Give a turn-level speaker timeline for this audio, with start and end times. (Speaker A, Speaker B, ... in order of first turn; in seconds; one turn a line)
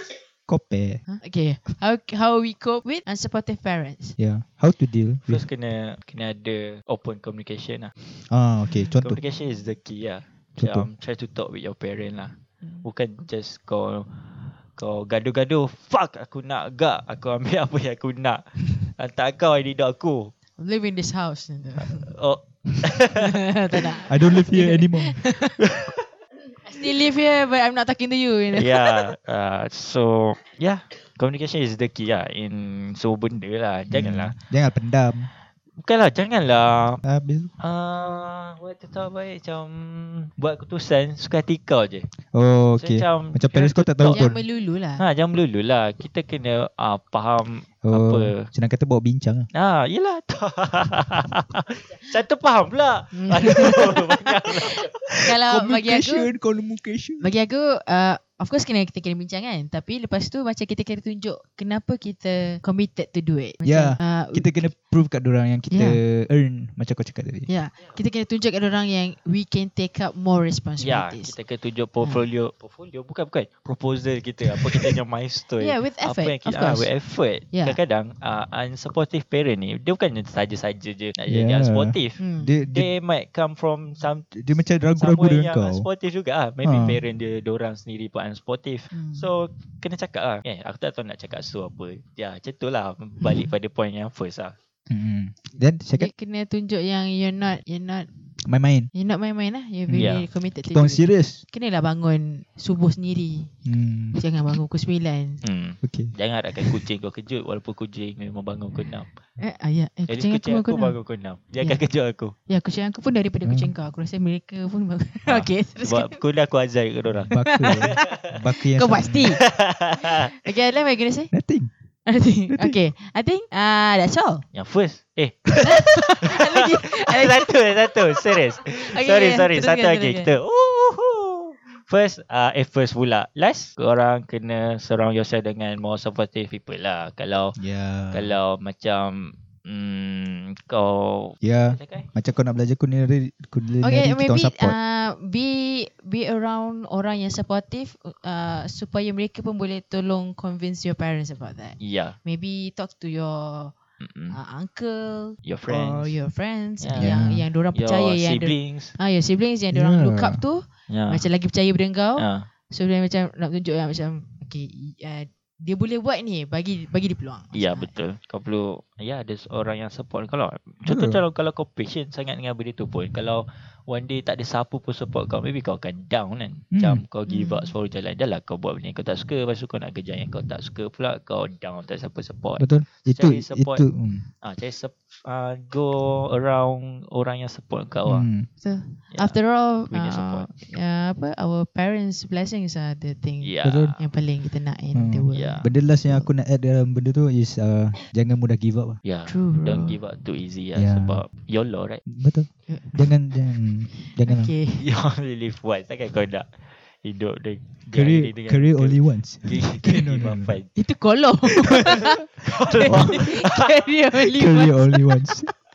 Speaker A: 0.5-1.0
Speaker B: 1.1-4.2
Speaker A: 4.2-5.4
Speaker C: 5.3-7.9
Speaker A: 8.0-9.2
Speaker C: 9.0-20.3
Speaker A: 10.6-10.9
Speaker B: 20.6-22.1
Speaker C: 21.8-23.8
Speaker B: 23.1-25.6
Speaker A: 24.0-25.4
Speaker B: 26.6-29.1
Speaker C: 28.5-34.3
Speaker A: 33.9-35.3
Speaker C: 35.8-37.0
Speaker A: 37.0-37.5
Speaker C: 37.6-42.1
Speaker A: 42.2-44.4
Speaker C: 42.8-44.3
Speaker B: 44.1-45.0
Speaker C: 45.0-48.5
Speaker A: 47.8-49.5
Speaker C: 49.5-54.9
Speaker B: 53.1-56.3
Speaker A: 55.2-57.3
Speaker B: 57.2-64.7
Speaker A: 63.6-67.5
Speaker B: 65.7-66.0
Speaker B: 67.5-71.3
Speaker C: 70.8-82.2
Speaker B: 75.6-76.9
Speaker B: 77.5-77.8
Speaker A: 81.3-82.9
Speaker B: 82.2-82.5
Speaker C: 82.7-94.5
Speaker A: 84.3-85.9
Speaker A: 86.6-87.0
Speaker B: 88.9-89.2
Speaker A: 94.9-96.1
Speaker B: 95.9-98.1
Speaker A: 98.4-98.9
Speaker B: 98.9-103.5
Speaker A: 99.9-101.4
Speaker C: 100.0-100.2
Speaker A: 103.7-104.6
Speaker B: 104.1-105.4
Speaker C: 105.4-109.1
Speaker A: 105.8-106.8
Speaker B: 109.4-111.0
Speaker C: 110.1-112.3
Speaker B: 112.5-116.2
Speaker A: 113.4-113.7
Speaker C: 115.3-118.3
Speaker A: 117.1-119.4
Speaker B: 117.3-121.3
Speaker C: 119.3-120.3
Speaker A: 121.3-121.7
Speaker B: 122.0-124.4
Speaker A: 122.5-122.8
Speaker C: 124.5-137.6
Speaker B: 125.6-130.3
Speaker A: 137.6-138.3
Speaker C: 138.1-142.1
Speaker A: 141.4-144.8
Speaker B: 143.8-153.7
Speaker C: 151.8-152.2
Speaker C: 154.0-154.4
Speaker B: 154.3-167.9
Speaker C: 155.4-156.2
Speaker C: 156.8-157.2
Speaker A: 157.0-157.4
Speaker C: 157.7-158.9
Speaker A: 159.7-160.4
Speaker C: 160.9-161.2
Speaker C: 162.2-162.5
Speaker C: 167.5-183.8
Speaker A: 170.8-171.2
Speaker A: 176.7-177.0
Speaker B: 177.3-177.7
Speaker A: 182.6-184.2
Speaker C: 184.4-188.3
Speaker A: 188.1-188.5
Speaker B: 188.6-196.3
Speaker C: 189.9-190.5
Speaker C: 193.4-194.0
Speaker A: 193.6-193.9
Speaker A: 194.9-199.0
Speaker C: 195.3-195.7
Speaker C: 199.0-202.0
Speaker B: 199.2-200.0
Speaker A: 200.8-201.2
Speaker A: 202.1-204.5
Speaker B: 202.7-203.1
Speaker B: 204.1-204.8
Speaker C: 204.8-210.7
Speaker A: 207.8-210.6
Speaker B: 210.8-215.3
Speaker C: 211.7-213.7
Speaker A: 212.8-213.2
Speaker A: 214.2-215.5